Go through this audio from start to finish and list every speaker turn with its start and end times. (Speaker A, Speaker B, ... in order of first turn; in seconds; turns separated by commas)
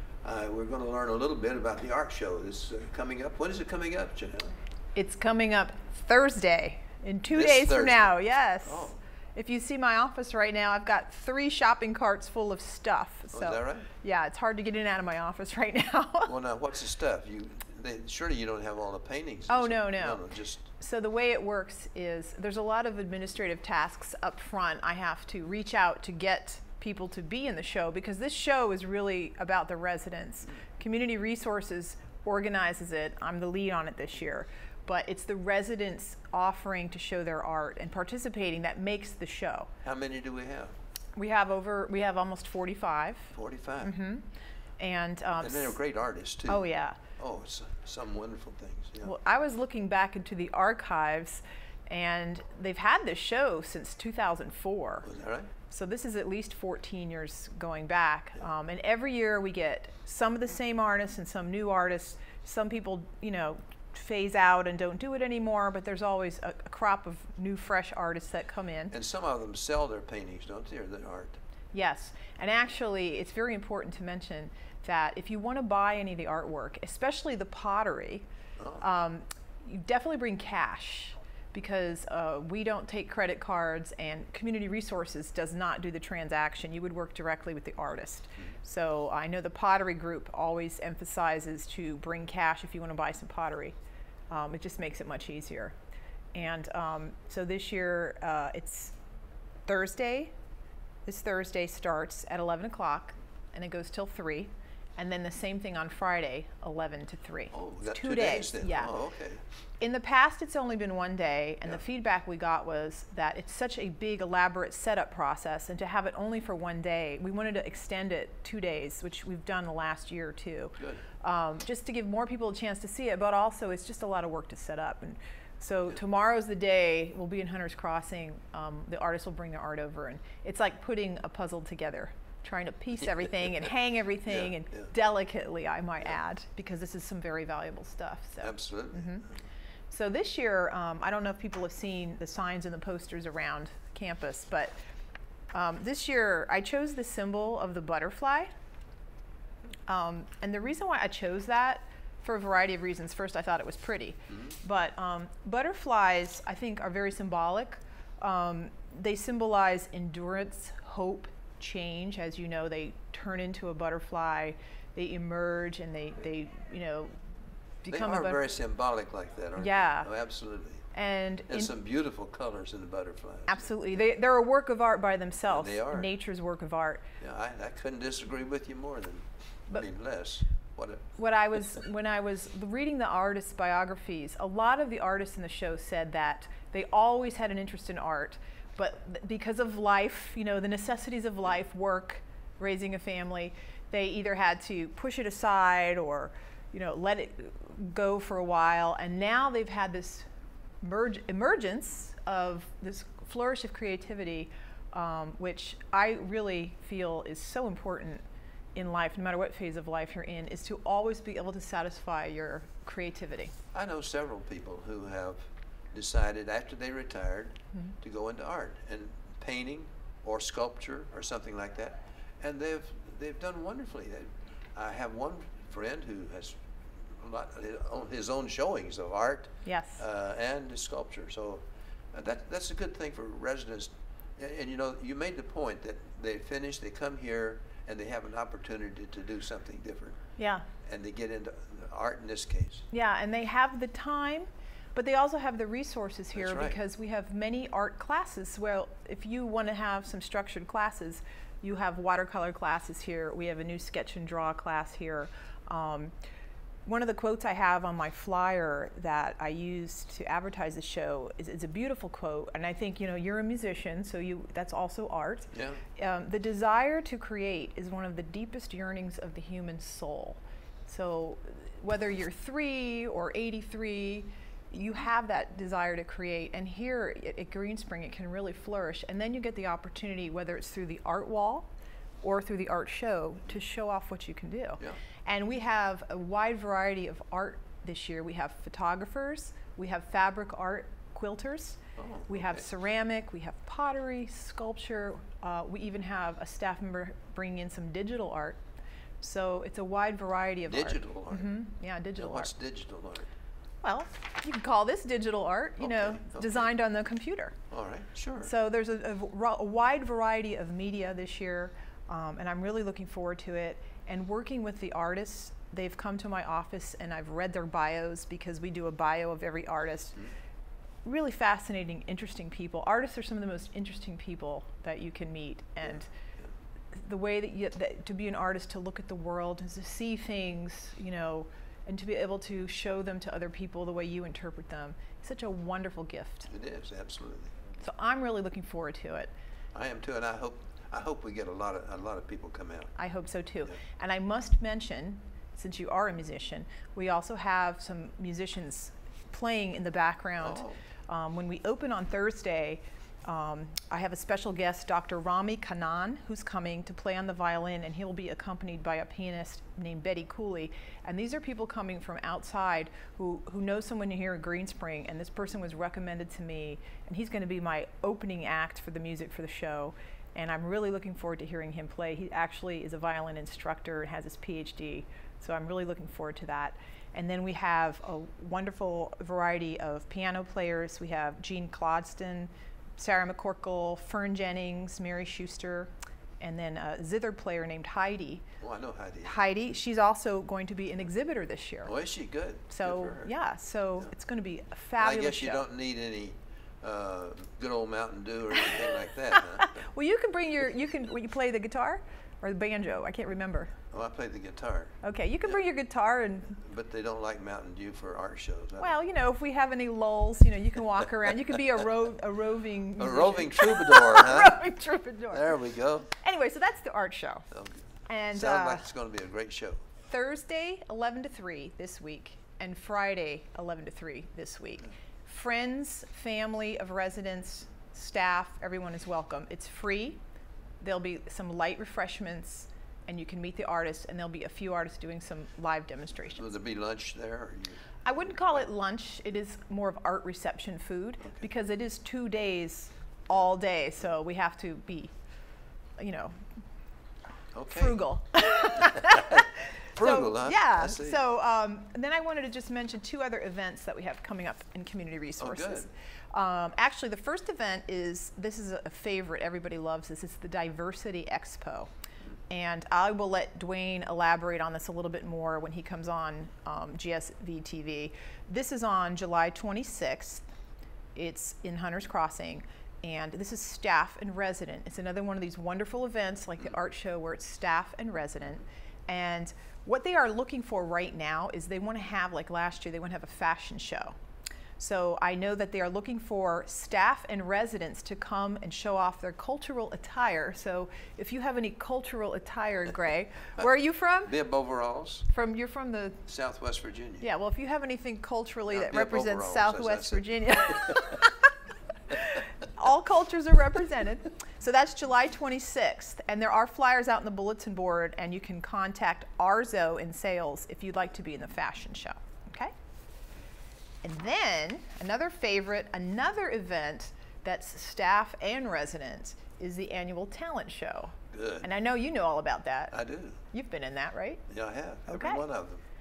Speaker A: 0.2-4.5, Speaker B: 5.0-16.3, Speaker A: 7.3-9.0, Speaker A: 13.3-13.9, Speaker A: 16.3-20.6, Speaker B: 19.5-39.7, Speaker A: 39.8-40.7, Speaker B: 41.2-44.3, Speaker A: 43.3-44.0, Speaker B: 44.8-45.8, Speaker A: 45.4-46.7, Speaker B: 46.5-47.0, Speaker A: 47.2-49.1, Speaker B: 49.0-55.1, Speaker A: 55.0-55.5, Speaker B: 55.7-68.9, Speaker A: 68.9-71.4, Speaker B: 71.7-78.3, Speaker B: 78.8-93.8, Speaker B: 94.3-95.8, Speaker B: 96.3-99.0, Speaker B: 99.7-100.3, Speaker B: 101.0-108.9, Speaker A: 107.5-109.4, Speaker B: 109.8-139.3, Speaker A: 134.3-134.9, Speaker A: 138.4-139.1, Speaker B: 139.9-144.7, Speaker B: 145.5-148.5, Speaker B: 149.9-167.1, Speaker B: 167.8-168.4, Speaker A: 167.9-170.8, Speaker B: 169.6-170.1, Speaker B: 170.9-171.7, Speaker A: 171.5-173.7, Speaker B: 173.5-177.1, Speaker A: 175.5-176.1, Speaker A: 177.2-181.1, Speaker B: 181.2-200.3, Speaker B: 200.8-208.2, Speaker B: 208.8-213.5, Speaker A: 213.7-215.4, Speaker A: 215.9-226.6, Speaker A: 227.1-231.6, Speaker B: 229.7-230.0, Speaker A: 232.1-240.2, Speaker B: 240.4-240.7, Speaker A: 240.9-242.8, Speaker B: 242.9-256.1, Speaker A: 246.3-246.8, Speaker B: 256.9-281.7, Speaker A: 265.5-265.8, Speaker B: 282.2-298.6, Speaker A: 292.0-292.6, Speaker B: 299.2-302.5, Speaker A: 300.7-301.6, Speaker A: 302.1-303.3, Speaker B: 303.8-307.6, Speaker A: 305.8-306.7, Speaker A: 307.7-308.5, Speaker B: 308.4-320.2, Speaker B: 321.1-326.1, Speaker B: 326.9-336.5, Speaker A: 336.5-337.6, Speaker B: 337.8-339.3, Speaker A: 339.8-342.9, Speaker B: 343.0-388.4, Speaker A: 350.4-350.8, Speaker A: 388.6-389.4, Speaker B: 389.2-391.9, Speaker A: 391.9-393.3, Speaker B: 392.7-395.6, Speaker A: 395.0-399.8, Speaker B: 398.6-403.8, Speaker A: 403.9-404.9, Speaker B: 405.0-406.6, Speaker A: 406.6-409.0, Speaker B: 408.8-415.6, Speaker A: 413.0-414.6, Speaker A: 415.3-416.1, Speaker B: 416.1-417.5, Speaker A: 417.5-417.8, Speaker B: 418.1-418.9, Speaker A: 418.3-419.8, Speaker B: 420.1-430.2, Speaker B: 430.8-436.5, Speaker A: 436.4-437.8, Speaker B: 438.1-445.1, Speaker B: 446.0-446.4, Speaker A: 447.5-448.0, Speaker B: 447.7-461.9, Speaker A: 450.0-451.2, Speaker A: 455.4-455.9, Speaker B: 462.5-470.4, Speaker B: 471.1-484.1, Speaker B: 484.8-494.3, Speaker A: 494.3-495.3, Speaker B: 495.3-496.2, Speaker A: 496.3-497.3, Speaker B: 497.2-501.4, Speaker A: 498.7-501.0, Speaker B: 502.1-512.7, Speaker B: 514.0-523.0, Speaker A: 521.3-521.7, Speaker A: 522.9-523.4, Speaker B: 523.5-524.5, Speaker A: 524.5-525.8, Speaker B: 525.1-525.4